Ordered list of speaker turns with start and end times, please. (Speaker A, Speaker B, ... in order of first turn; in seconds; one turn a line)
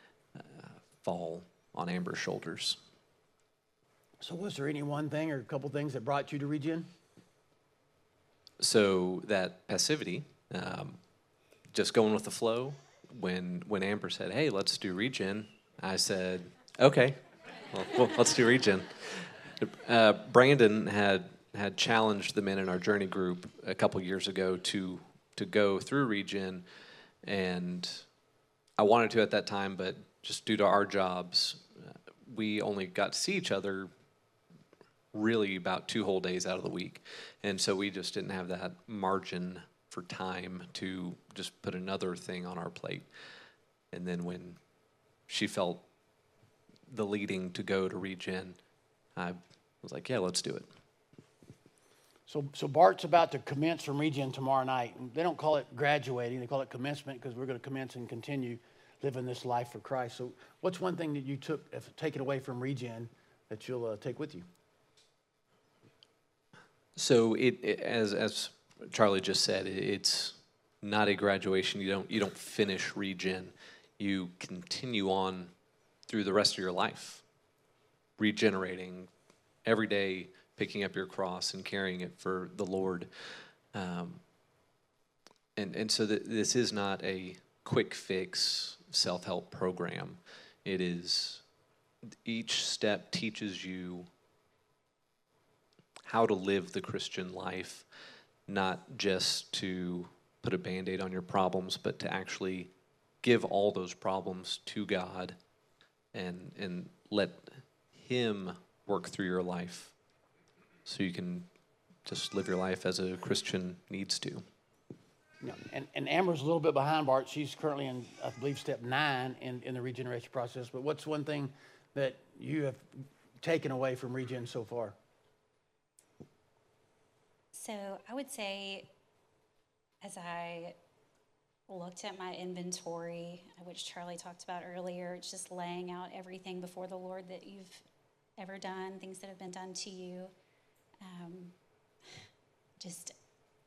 Speaker A: 0.3-2.8
Speaker B: 4.2-6.9
Speaker A: 8.6-11.0
Speaker A: 11.7-17.2
Speaker A: 17.7-26.6
Speaker A: 27.2-28.0
Speaker A: 28.8-33.9
Speaker A: 35.1-43.0
Speaker A: 43.9-44.6
Speaker A: 45.3-45.8
Speaker A: 46.9-48.6
Speaker A: 49.1-50.7
Speaker B: 52.3-64.4
Speaker A: 66.9-75.5
Speaker A: 76.1-77.2
Speaker A: 78.2-79.1
Speaker A: 79.6-83.1
Speaker A: 83.7-84.2
Speaker A: 85.5-91.4
Speaker A: 92.2-94.1
Speaker A: 96.0-97.8
Speaker A: 98.5-105.3
Speaker A: 106.1-109.9
Speaker A: 110.8-111.5
Speaker A: 112.0-114.4
Speaker B: 115.4-122.8
Speaker B: 123.4-125.0
Speaker C: 127.5-128.9
Speaker C: 130.0-130.8
Speaker C: 131.7-137.8
Speaker C: 138.4-140.3
Speaker C: 141.0-141.5
Speaker C: 142.8-143.1